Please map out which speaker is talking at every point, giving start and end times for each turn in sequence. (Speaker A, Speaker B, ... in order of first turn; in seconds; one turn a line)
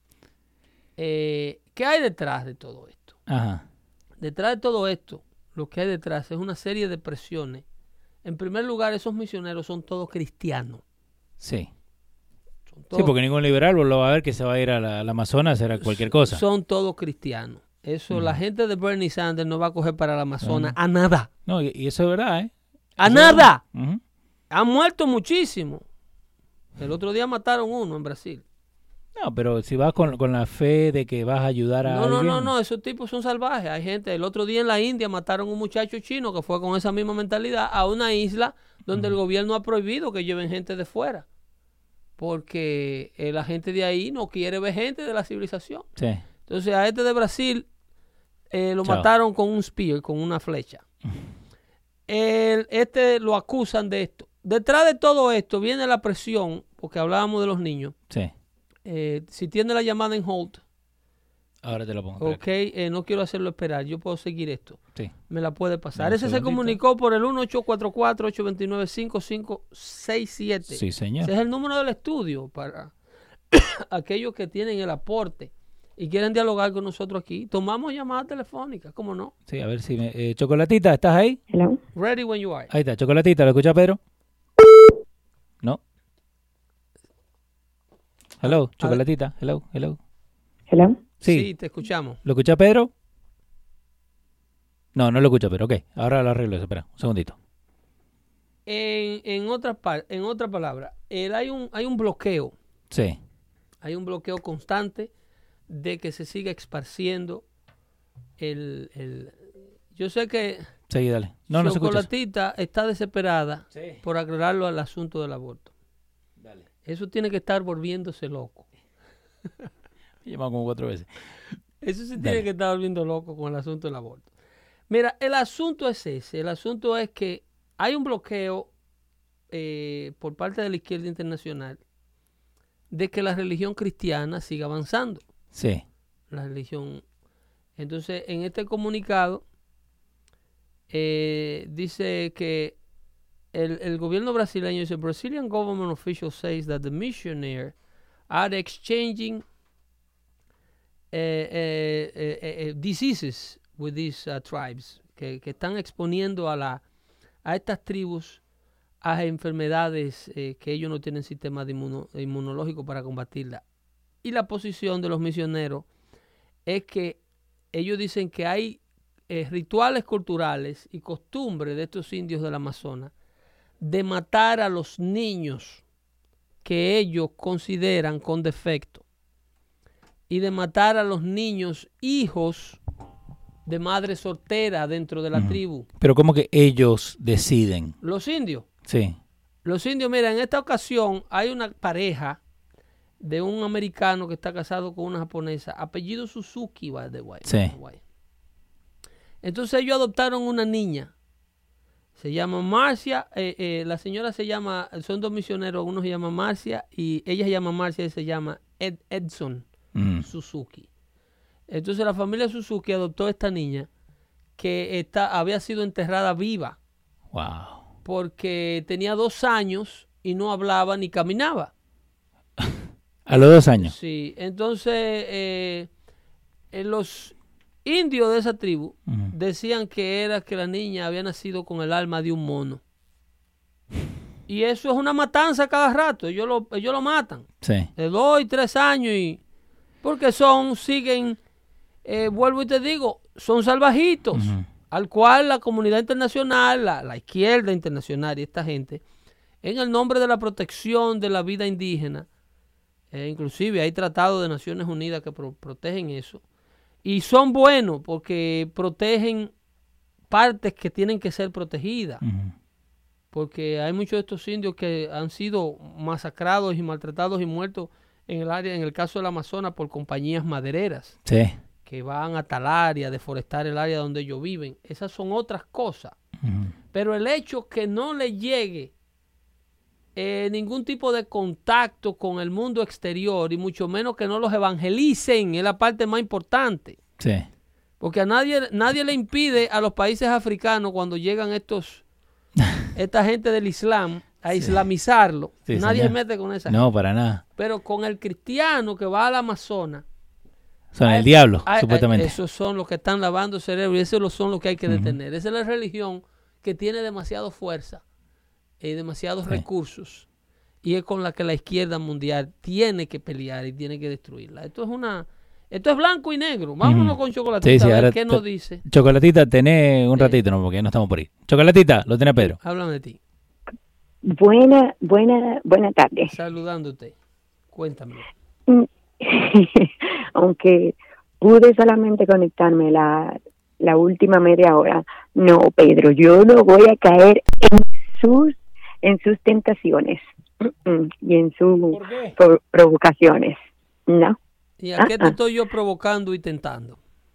Speaker A: 1.0-3.2
Speaker B: 3.3-3.6
Speaker A: 4.2-7.7
Speaker A: 8.2-10.8
Speaker B: 11.4-11.7
Speaker A: 12.7-13.1
Speaker B: 12.9-16.4
Speaker A: 15.8-21.3
Speaker B: 18.1-18.4
Speaker B: 20.4-20.8
Speaker B: 21.5-24.0
Speaker A: 23.0-23.6
Speaker A: 24.5-25.8
Speaker A: 26.8-28.4
Speaker B: 29.2-32.5
Speaker A: 31.9-41.2
Speaker B: 38.9-39.2
Speaker A: 42.2-45.9
Speaker B: 46.0-46.2
Speaker A: 46.5-47.7
Speaker A: 48.5-50.8
Speaker A: 52.1-58.0
Speaker A: 58.9-60.6
Speaker B: 61.6-62.4
Speaker A: 62.2-72.9
Speaker B: 66.0-66.8
Speaker B: 70.7-71.3
Speaker A: 73.5-79.3
Speaker B: 79.5-81.4
Speaker C: 81.5-81.8
Speaker A: 82.0-82.7
Speaker B: 82.7-84.0
Speaker B: 88.4-90.0
Speaker A: 88.4-89.0
Speaker C: 90.7-91.0
Speaker A: 91.2-92.2
Speaker B: 91.2-91.5
Speaker B: 92.2-92.9
Speaker B: 95.0-97.4
Speaker A: 98.7-102.5
Speaker B: 102.9-103.2
Speaker A: 103.8-105.1
Speaker A: 105.7-107.4
Speaker A: 108.4-110.7
Speaker B: 110.9-112.1
Speaker A: 111.5-115.7
Speaker B: 113.7-114.0
Speaker B: 116.4-116.7
Speaker A: 116.9-118.7
Speaker B: 120.2-121.1
Speaker A: 121.8-124.3
Speaker B: 122.2-122.4
Speaker A: 124.9-128.7
Speaker A: 129.5-131.8
Speaker A: 132.9-135.3
Speaker B: 135.5-135.8
Speaker A: 136.3-137.0
Speaker A: 137.8-139.4
Speaker A: 140.9-142.8
Speaker A: 143.5-147.8
Speaker A: 148.3-149.4
Speaker A: 151.1-156.8
Speaker A: 157.4-158.4
Speaker A: 159.0-163.6
Speaker A: 164.2-165.9
Speaker A: 166.7-167.2
Speaker A: 167.7-173.1
Speaker A: 173.8-175.8
Speaker A: 176.6-179.0
Speaker A: 180.3-182.8
Speaker A: 183.7-185.9
Speaker B: 185.4-188.0
Speaker A: 188.0-188.7
Speaker B: 188.9-189.2
Speaker A: 189.7-192.4
Speaker A: 193.2-198.0
Speaker B: 197.5-197.8
Speaker A: 199.4-201.1
Speaker A: 202.2-209.7
Speaker B: 209.9-210.2
Speaker A: 210.2-210.9
Speaker A: 211.7-213.9
Speaker A: 214.6-216.8
Speaker B: 217.3-217.9
Speaker A: 218.1-221.7
Speaker B: 223.3-223.9
Speaker A: 223.8-225.9
Speaker A: 226.7-232.8
Speaker B: 229.1-229.3
Speaker A: 234.5-239.4
Speaker B: 237.6-237.9
Speaker A: 240.0-241.4
Speaker A: 242.1-249.0
Speaker B: 244.3-244.7
Speaker A: 249.6-252.3
Speaker A: 253.1-256.4
Speaker A: 257.0-259.5
Speaker A: 260.3-262.2
Speaker B: 262.2-262.5
Speaker A: 263.3-271.2
Speaker B: 271.3-271.6
Speaker A: 271.9-276.1
Speaker B: 276.4-276.7
Speaker A: 276.9-278.9
Speaker A: 280.2-287.0
Speaker B: 287.2-287.5
Speaker A: 288.0-292.0
Speaker A: 292.9-296.8
Speaker B: 294.5-294.8
Speaker B: 295.7-297.4
Speaker A: 297.6-300.1
Speaker B: 300.9-302.4
Speaker A: 301.0-308.0
Speaker B: 304.9-305.2
Speaker A: 308.8-310.3
Speaker A: 310.8-318.8
Speaker B: 316.8-322.6
Speaker A: 322.4-323.2
Speaker C: 324.2-326.3
Speaker A: 326.3-327.1
Speaker A: 327.7-328.3
Speaker C: 328.7-344.4
Speaker B: 341.9-342.4
Speaker A: 344.8-347.0
Speaker C: 345.0-345.3